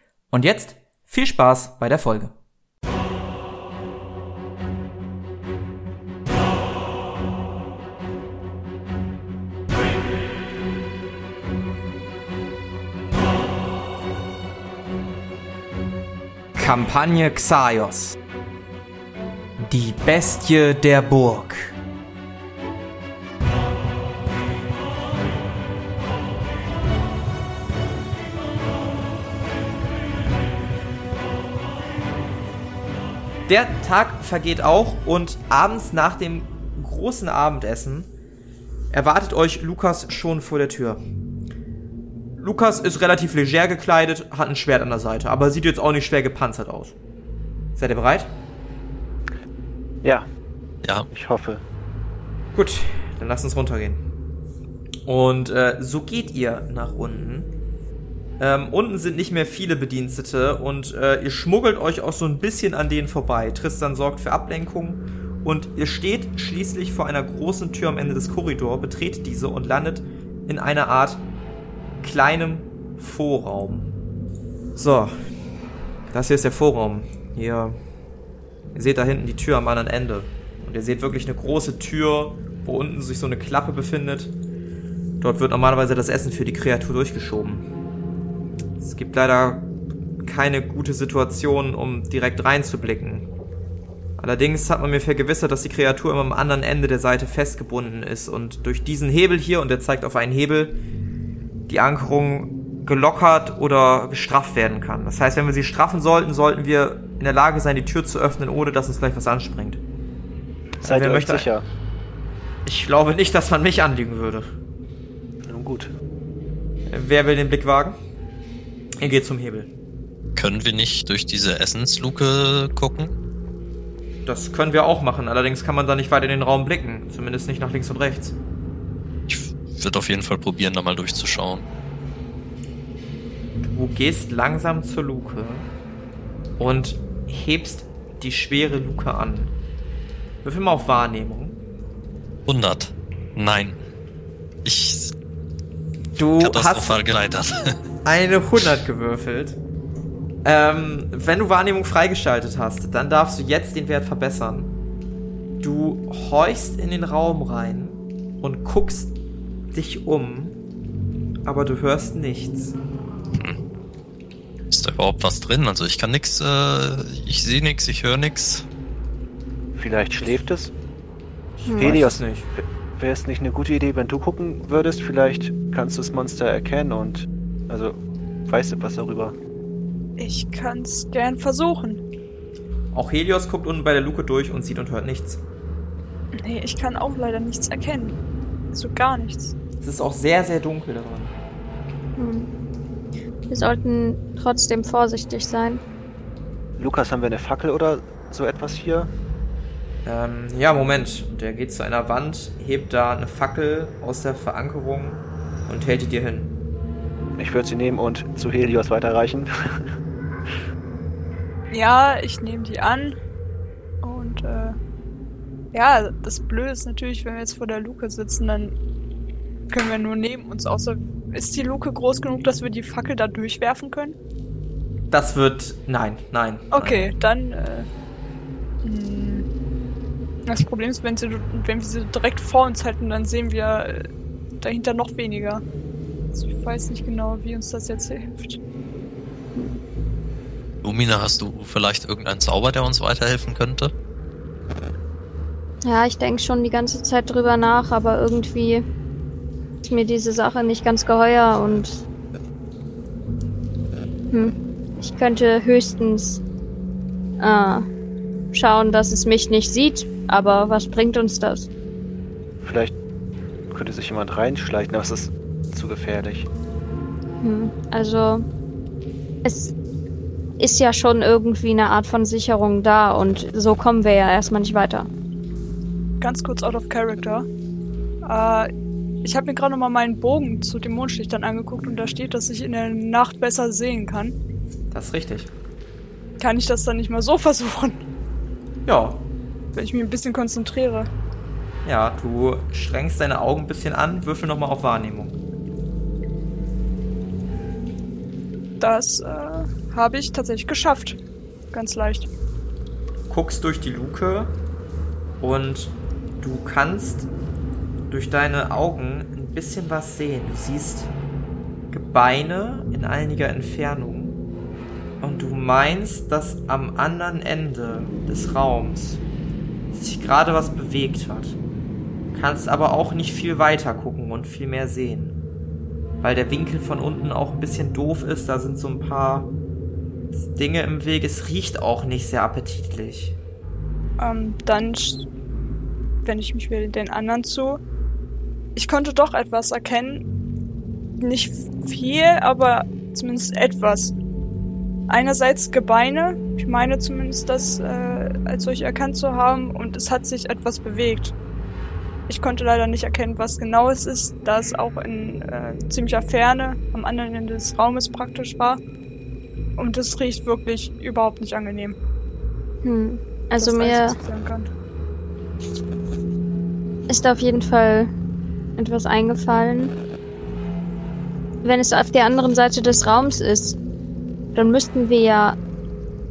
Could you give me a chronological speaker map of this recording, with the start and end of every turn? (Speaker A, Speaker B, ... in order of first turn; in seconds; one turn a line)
Speaker A: 0.3-2.3
Speaker A: 16.6-18.2
Speaker A: 19.6-21.8
Speaker A: 33.5-38.1
Speaker A: 38.9-41.0
Speaker A: 42.4-47.0
Speaker A: 47.8-48.3
Speaker B: 51.1-51.6
Speaker A: 52.5-54.0
Speaker A: 55.1-57.5
Speaker A: 58.4-71.2
Speaker A: 72.0-73.9
Speaker A: 74.8-75.1
Speaker A: 76.1-77.8
Speaker A: 78.7-84.3
Speaker A: 85.2-87.6
Speaker A: 88.8-89.7
Speaker A: 90.2-93.3
Speaker A: 94.2-100.8
Speaker A: 101.7-109.8
Speaker A: 110.8-111.5
Speaker B: 110.8-111.7
Speaker A: 112.6-114.5
Speaker B: 115.4-115.9
Speaker A: 116.9-118.0
Speaker A: 119.0-119.7
Speaker C: 120.4-123.1
Speaker A: 124.3-128.3
Speaker C: 129.3-131.6
Speaker A: 133.6-135.7
Speaker A: 136.6-139.5
Speaker A: 140.4-141.6
Speaker C: 142.4-143.8
Speaker C: 144.6-145.1
Speaker A: 146.2-147.0
Speaker C: 146.4-147.8
Speaker A: 148.1-149.6
Speaker A: 150.4-154.7
Speaker A: 155.6-159.1
Speaker A: 159.7-160.6
Speaker A: 161.4-162.7
Speaker C: 164.7-168.7
Speaker B: 169.8-170.7
Speaker A: 171.7-172.5
Speaker D: 171.7-172.0
Speaker B: 171.8-179.4
Speaker E: 180.2-182.0
Speaker A: 182.9-185.4
Speaker E: 186.3-188.2
Speaker E: 188.7-189.5
Speaker A: 189.8-191.3
Speaker D: 192.2-192.5
Speaker D: 193.5-195.8
Speaker B: 196.8-199.1
Speaker A: 200.1-206.5
Speaker B: 207.4-209.9
Speaker E: 211.7-213.2
Speaker E: 214.0-214.8
Speaker E: 215.7-218.8
Speaker E: 219.7-224.2
Speaker A: 225.1-227.1
Speaker E: 226.7-227.9
Speaker E: 228.8-229.4
Speaker E: 230.4-234.1
Speaker E: 234.6-235.6
Speaker E: 236.3-238.6
Speaker C: 240.8-243.9
Speaker D: 245.8-248.8
Speaker D: 249.8-252.0
Speaker D: 254.3-256.4
Speaker D: 257.4-257.9
Speaker D: 258.5-261.7
Speaker B: 262.6-262.9
Speaker B: 263.7-266.5
Speaker D: 267.4-268.4
Speaker D: 269.4-269.7
Speaker D: 270.6-275.1
Speaker E: 276.2-277.5
Speaker E: 278.2-278.7
Speaker E: 279.2-284.4
Speaker A: 284.9-285.5
Speaker E: 286.4-288.0
Speaker A: 288.9-289.2
Speaker E: 289.8-291.1
Speaker A: 291.9-295.4
Speaker E: 298.8-301.2
Speaker E: 301.7-302.3
Speaker A: 303.3-304.5
Speaker A: 305.4-307.3
Speaker A: 308.1-311.1
Speaker A: 311.9-314.4
Speaker A: 315.2-319.2
Speaker A: 319.9-321.6
Speaker A: 322.3-325.4
Speaker A: 326.2-329.5
Speaker A: 330.3-333.4
Speaker E: 334.2-335.2
Speaker E: 336.2-337.8
Speaker E: 338.8-340.2
Speaker E: 341.2-344.1
Speaker E: 345.1-351.3
Speaker E: 352.3-358.8
Speaker E: 359.8-362.0
Speaker D: 362.8-364.2
Speaker E: 363.6-364.7
Speaker D: 367.1-368.1
Speaker D: 368.8-369.9
Speaker D: 371.6-373.8
Speaker D: 374.6-375.6